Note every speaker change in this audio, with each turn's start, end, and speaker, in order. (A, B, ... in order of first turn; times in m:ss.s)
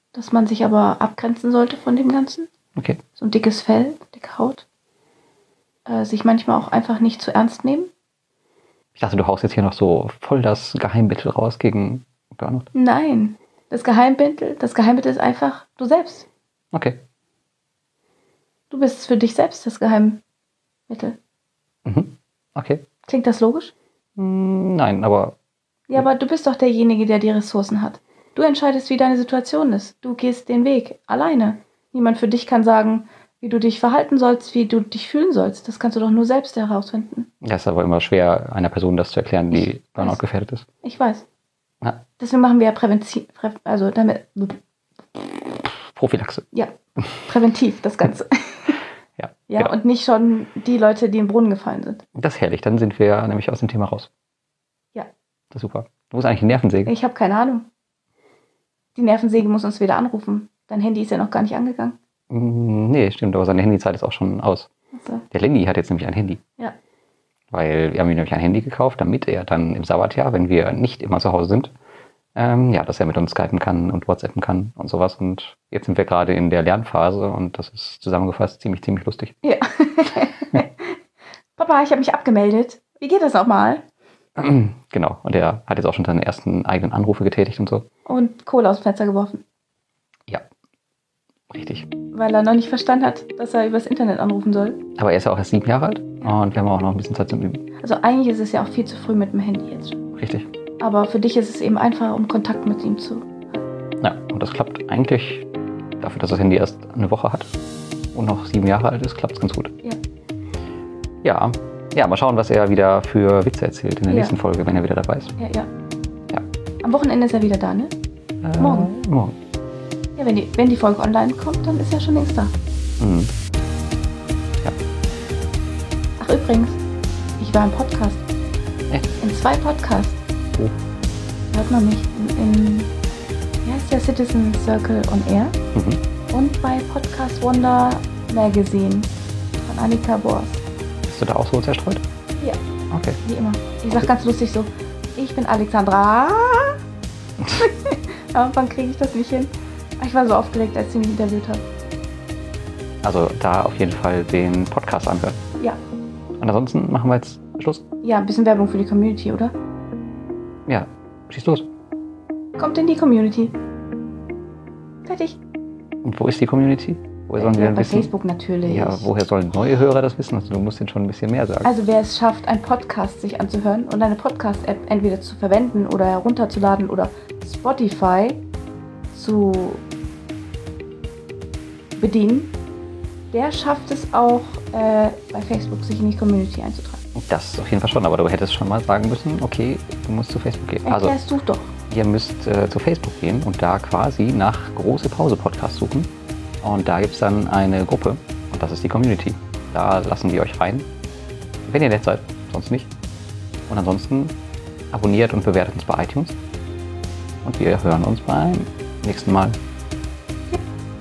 0:00.1-0:02.6 A
0:02.7-0:03.0 B
0:03.1-0:04.6 A
0:05.8-0:07.9 A
0:08.9-0:12.7 B
0:12.7-0:16.3 A
0:16.7-0:17.0 B
0:18.7-0:20.2 A
0:20.9-0:21.2 A
0:21.8-0:22.9 B
0:23.0-0:23.7 A
0:24.2-0:25.4 B
0:25.9-0:37.3 A
0:37.4-0:40.6 B
0:39.5-0:40.2 A
0:40.8-0:41.2 A
0:42.1-0:44.6 A
0:45.1-0:45.6 A
0:45.6-0:46.5 B
0:46.5-0:48.8 A
0:49.2-0:49.8 B
0:49.4-0:52.0 A
0:52.1-0:54.1 B
0:55.5-0:56.9 B
0:56.8-0:57.6 A
0:58.9-1:02.0 A
1:02.3-1:04.7 B
1:04.9-1:05.3 A
1:05.3-1:06.4 B
1:07.5-1:11.7 B
1:12.3-1:19.3 B
1:19.4-1:20.9 A
1:21.6-1:23.8 A
1:24.4-1:27.8 B
1:28.0-1:29.4 A
1:31.5-1:31.9 B
1:32.1-1:34.9 A
1:34.9-1:37.6 B
1:37.7-1:40.1 A
1:40.1-1:40.5 B
1:40.8-1:43.6 A
1:44.0-1:45.4 B
1:46.0-1:47.5 B
1:48.1-1:49.8 B
1:51.2-1:55.3 B
1:54.1-1:54.4 A
1:55.4-1:55.7 A
1:56.8-1:57.9 A
1:58.4-1:59.4 B
1:58.6-1:58.9 A
2:00.2-2:02.5 A
2:03.0-2:03.3 B
2:06.2-2:06.8 A
2:07.4-2:08.2 A
2:09.1-2:10.2 A
2:11.5-2:12.9 A
2:13.6-2:15.6 A
2:15.7-2:16.0 B
2:16.3-2:20.6 A
2:21.0-2:22.0 B
2:22.9-2:23.2 B
2:23.2-2:26.8 A
2:27.6-2:31.6 A
2:33.0-2:35.4 B
2:36.4-2:37.8 B
2:38.0-2:39.5 A
2:40.7-2:41.7 B
2:42.6-2:43.6 A
2:45.0-2:45.4 A
2:46.0-2:51.7 B
2:47.2-2:49.1 A
2:51.6-2:58.4 A
2:59.1-2:59.8 A
3:02.0-3:02.5 A
3:03.3-3:07.0 A
3:07.1-3:11.2 B
3:10.8-3:11.8 A
3:11.8-3:16.1 B
3:16.6-3:20.9 B
3:21.6-3:22.9 B
3:23.7-3:24.3 B
3:24.9-3:26.4 B
3:27.4-3:29.6 B